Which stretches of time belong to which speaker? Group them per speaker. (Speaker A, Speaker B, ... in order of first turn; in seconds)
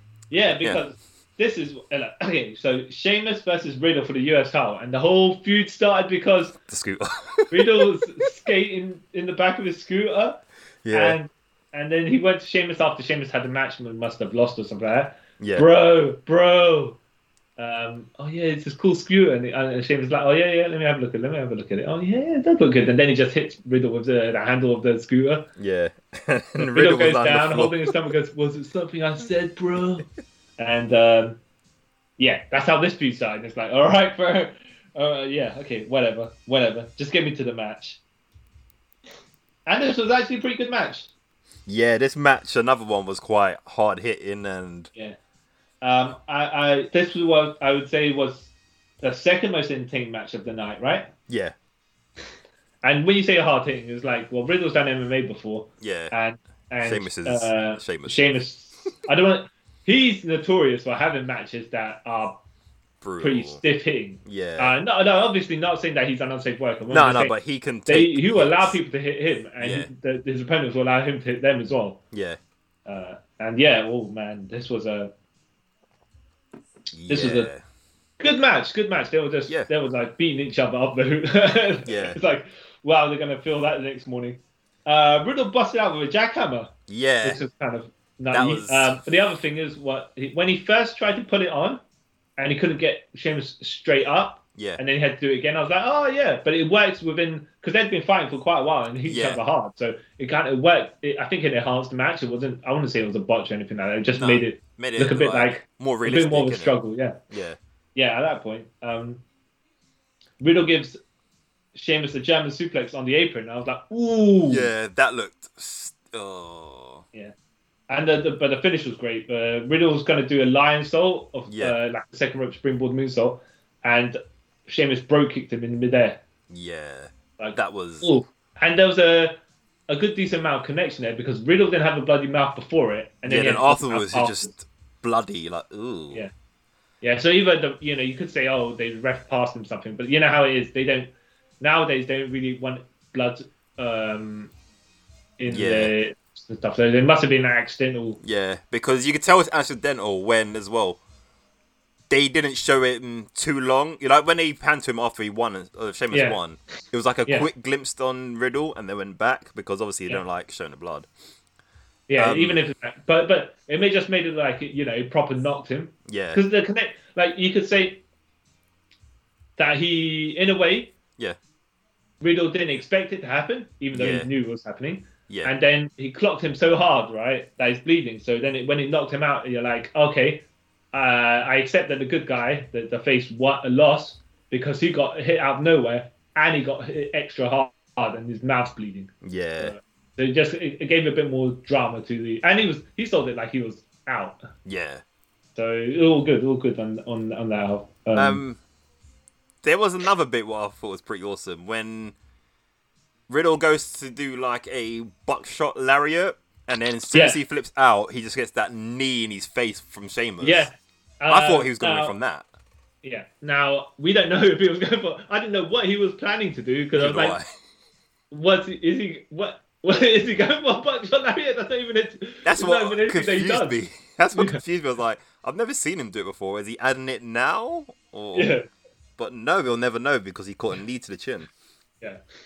Speaker A: 0.3-6.6, 7.5-17.0, 17.6-25.5, 26.6-30.1, 30.6-31.4, 32.2-38.0, 39.6-41.1, 45.8-51.1, 52.8-62.4, 63.2-67.3, 67.9-72.0, 72.8-75.1, 77.1-77.5, 78.2-86.7, 87.2-91.8, 92.4-107.2, 107.9-109.2, 110.4-111.0, 111.7-114.7, 117.9-126.2, 127.4-129.4, 129.9-134.5, 137.0-144.5, 145.4-148.2, 156.1-156.4, 162.1-168.0, 169.6-170.9, 172.2-194.5, 195.5-198.4, 207.1-207.4, 210.4-212.1, 213.0-217.4, 218.3-223.8, 224.3-224.6, 228.3-228.7
Speaker B: 6.6-7.9, 10.8-11.2, 15.4-15.7, 25.6-27.9, 41.6-44.9, 51.3-51.5, 55.8-56.1, 56.8-58.3, 63.0-63.6, 64.2-64.7, 66.9-68.8, 69.6-69.9, 72.1-72.4, 76.9-77.6, 81.8-82.2, 86.9-87.4, 88.3-89.0, 94.5-94.8, 99.0-99.4, 104.2-106.7, 107.3-107.6, 114.5-117.0, 121.5-121.8, 126.5-128.1, 133.2-136.2, 145.5-145.9, 148.2-151.0, 152.1-161.1, 162.2-162.6, 166.1-166.4, 173.9-174.3, 189.2-189.7, 194.7-195.0, 198.1-198.6, 199.6-202.1, 203.3-210.7, 211.3-212.4, 216.9-217.4, 222.4-228.6, 229.2-231.5